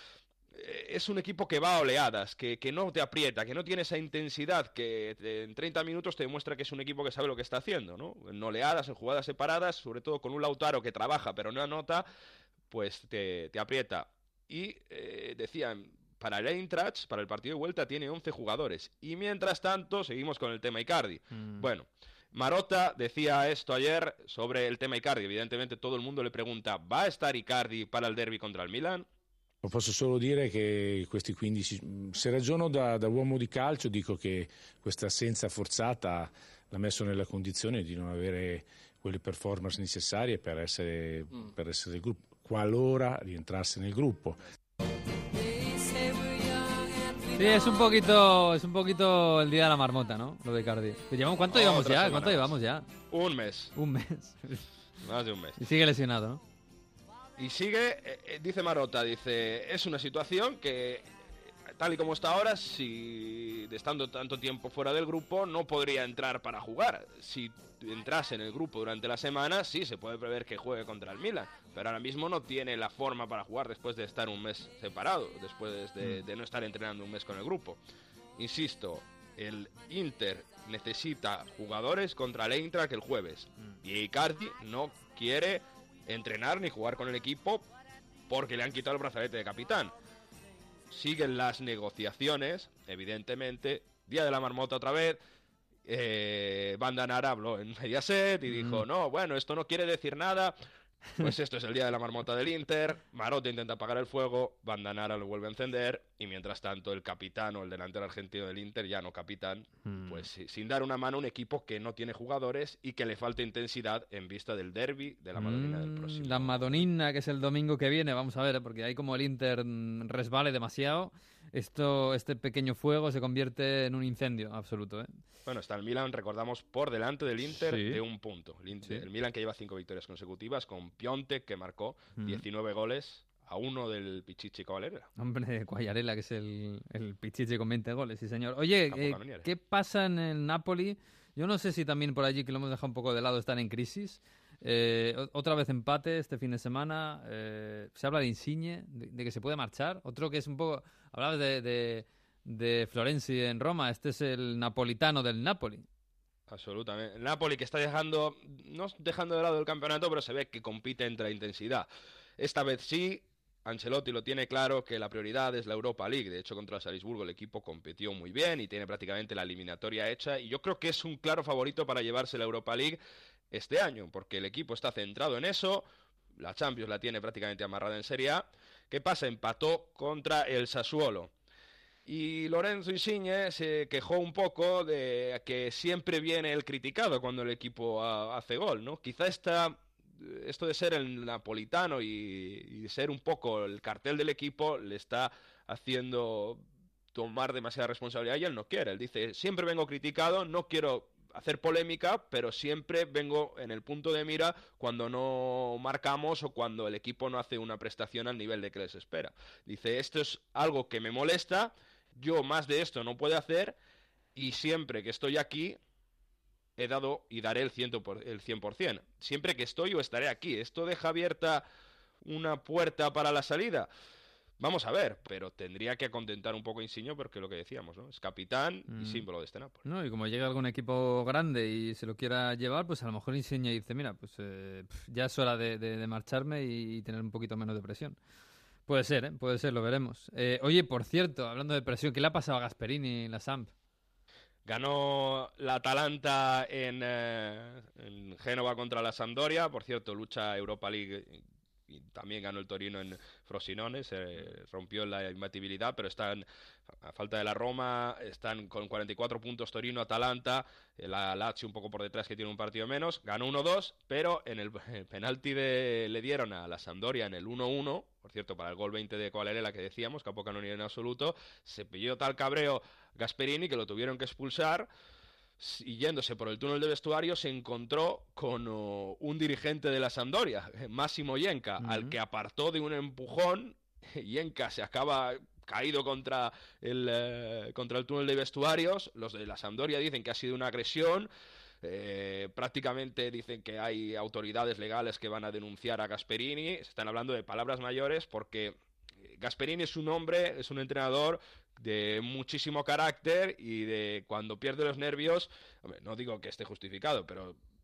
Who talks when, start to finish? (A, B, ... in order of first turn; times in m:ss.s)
0:00.5-0:12.0 A
0:12.7-0:29.1 A
0:21.3-0:21.7 B
0:29.6-0:44.4 C
0:47.3-0:52.8 B
0:51.5-0:52.5 A
0:53.1-0:53.7 A
0:53.7-0:54.6 B
0:55.0-0:55.6 A
0:55.6-0:56.4 B
0:57.4-1:01.0 A
1:01.7-1:17.8 A
1:18.4-1:27.7 A
1:28.3-1:29.9 A
1:30.9-1:35.2 A
1:35.8-1:40.6 A
1:38.5-1:38.8 B
1:41.2-1:56.8 A
1:49.8-1:50.3 B
1:55.3-2:05.2 B
2:05.5-2:15.1 A
2:07.5-2:08.0 B
2:12.2-2:12.4 B
2:15.2-2:35.8 B
2:18.9-2:19.4 A
2:36.5-2:41.9 A
2:42.4-2:53.0 A
2:53.5-3:01.3 A
3:02.0-3:33.8 A
3:34.3-3:35.8 A
3:36.8-3:41.6 A
3:42.2-3:43.9 A
3:44.6-3:49.8 A
3:48.9-3:49.2 B
3:49.8-3:58.2 B
3:58.9-4:03.7 B
4:04.6-4:16.4 A
4:17.0-4:34.9 A
4:35.6-4:51.3 A
4:41.8-4:42.1 B
4:51.8-5:07.6 A